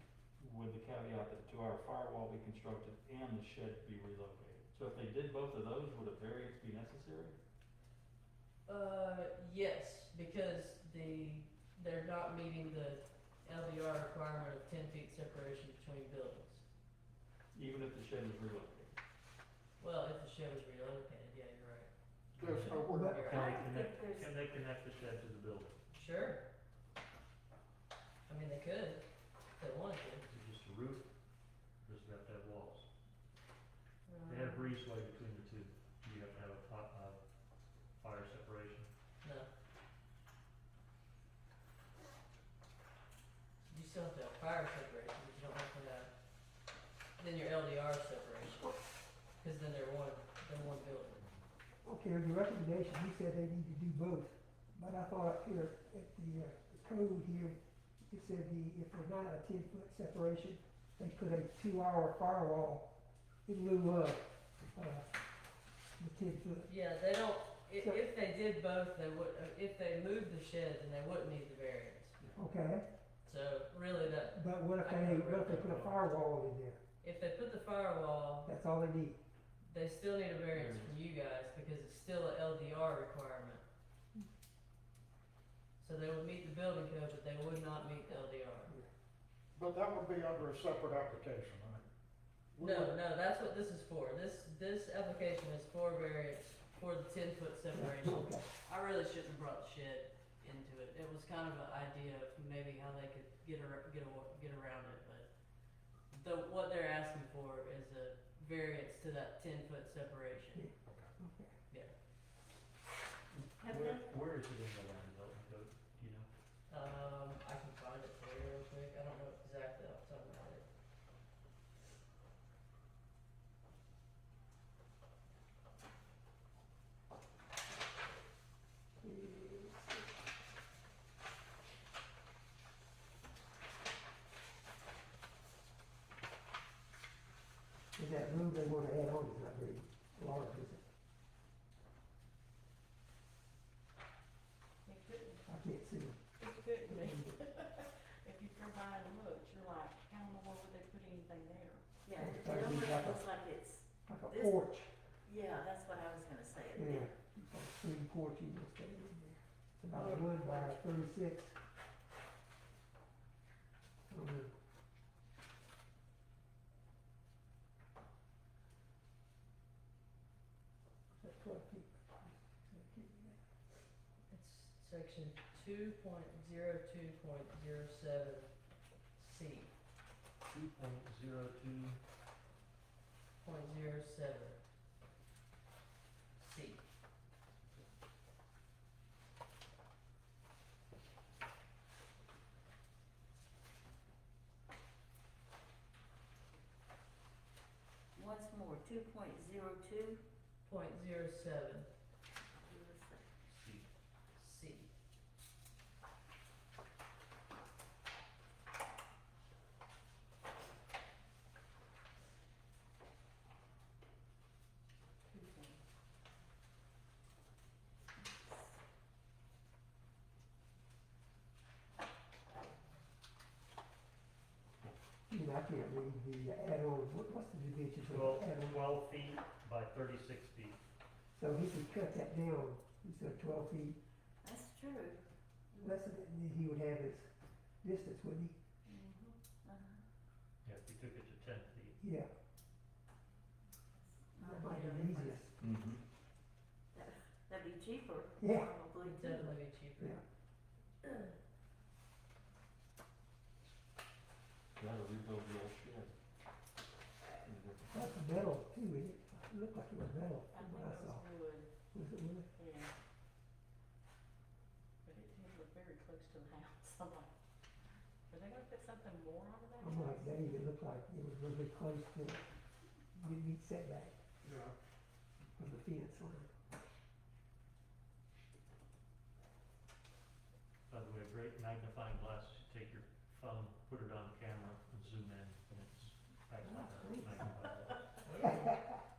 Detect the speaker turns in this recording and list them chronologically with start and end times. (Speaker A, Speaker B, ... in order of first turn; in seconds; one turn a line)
Speaker A: 0.4-7.4
Speaker B: 8.7-16.6
Speaker A: 17.5-19.0
Speaker B: 19.8-21.9
Speaker C: 22.3-25.8
Speaker D: 22.4-23.2
Speaker B: 22.9-23.6
Speaker E: 22.9-23.2
Speaker F: 23.2-24.3
Speaker B: 25.9-26.4
Speaker B: 28.3-29.0
Speaker B: 29.6-30.2
Speaker C: 30.2-31.1
Speaker C: 31.8-32.9
Speaker B: 34.1-34.7
Speaker C: 34.3-37.2
Speaker C: 38.0-38.9
Speaker B: 39.2-39.5
Speaker B: 43.7-46.1
Speaker B: 47.2-48.8
Speaker B: 49.4-51.2
Speaker E: 51.9-62.9
Speaker E: 63.5-65.1
Speaker E: 66.0-66.7
Speaker B: 66.7-72.2
Speaker E: 72.4-72.9
Speaker B: 73.2-75.9
Speaker E: 74.3-76.8
Speaker B: 77.0-78.5
Speaker E: 78.5-79.2
Speaker B: 79.6-83.6
Speaker A: 80.5-81.0
Speaker B: 85.8-88.7
Speaker D: 89.5-91.9
Speaker D: 92.5-93.0
Speaker B: 92.6-105.3
Speaker E: 97.7-98.5
Speaker B: 106.1-110.7
Speaker E: 110.5-111.5
Speaker C: 113.6-116.3
Speaker F: 113.6-114.1
Speaker B: 116.7-120.7
Speaker E: 129.0-130.1
Speaker E: 138.0-140.9
Speaker G: 144.9-145.4
Speaker E: 145.4-146.2
Speaker G: 146.4-151.8
Speaker E: 146.9-147.4
Speaker F: 152.1-154.6
Speaker E: 152.2-153.3
Speaker E: 154.1-154.9
Speaker F: 155.2-157.1
Speaker E: 156.7-161.6
Speaker B: 159.9-160.8
Speaker E: 164.1-164.5
Speaker E: 171.1-173.5
Speaker B: 174.3-178.5
Speaker B: 179.2-179.7
Speaker C: 180.5-182.0
Speaker B: 183.4-184.6
Speaker B: 186.4-186.8
Speaker F: 198.2-200.2
Speaker B: 200.6-201.9
Speaker F: 202.6-203.3
Speaker C: 203.5-203.9
Speaker B: 204.4-204.9
Speaker F: 215.3-215.8
Speaker F: 218.2-218.6
Speaker E: 225.3-228.8
Speaker C: 228.0-230.8
Speaker E: 231.3-234.0
Speaker F: 234.4-235.2
Speaker E: 235.8-237.3
Speaker E: 237.8-238.6
Speaker F: 238.9-240.0
Speaker C: 240.6-242.0
Speaker E: 242.0-242.3
Speaker F: 244.0-245.5
Speaker E: 244.4-245.5
Speaker A: 245.6-246.0
Speaker F: 246.9-249.6
Speaker E: 248.4-248.7
Speaker B: 249.0-250.2
Speaker E: 250.0-250.2
Speaker A: 254.8-256.1
Speaker A: 257.4-258.3
Speaker E: 257.9-261.2
Speaker G: 260.5-261.7
Speaker E: 261.9-262.5
Speaker G: 262.6-262.9
Speaker G: 265.1-267.3
Speaker G: 268.3-270.6
Speaker E: 269.8-272.4
Speaker E: 273.1-274.2
Speaker D: 274.4-274.7
Speaker E: 275.6-276.5
Speaker C: 280.9-288.3
Speaker E: 286.6-287.5
Speaker B: 288.2-288.8
Speaker E: 288.3-289.0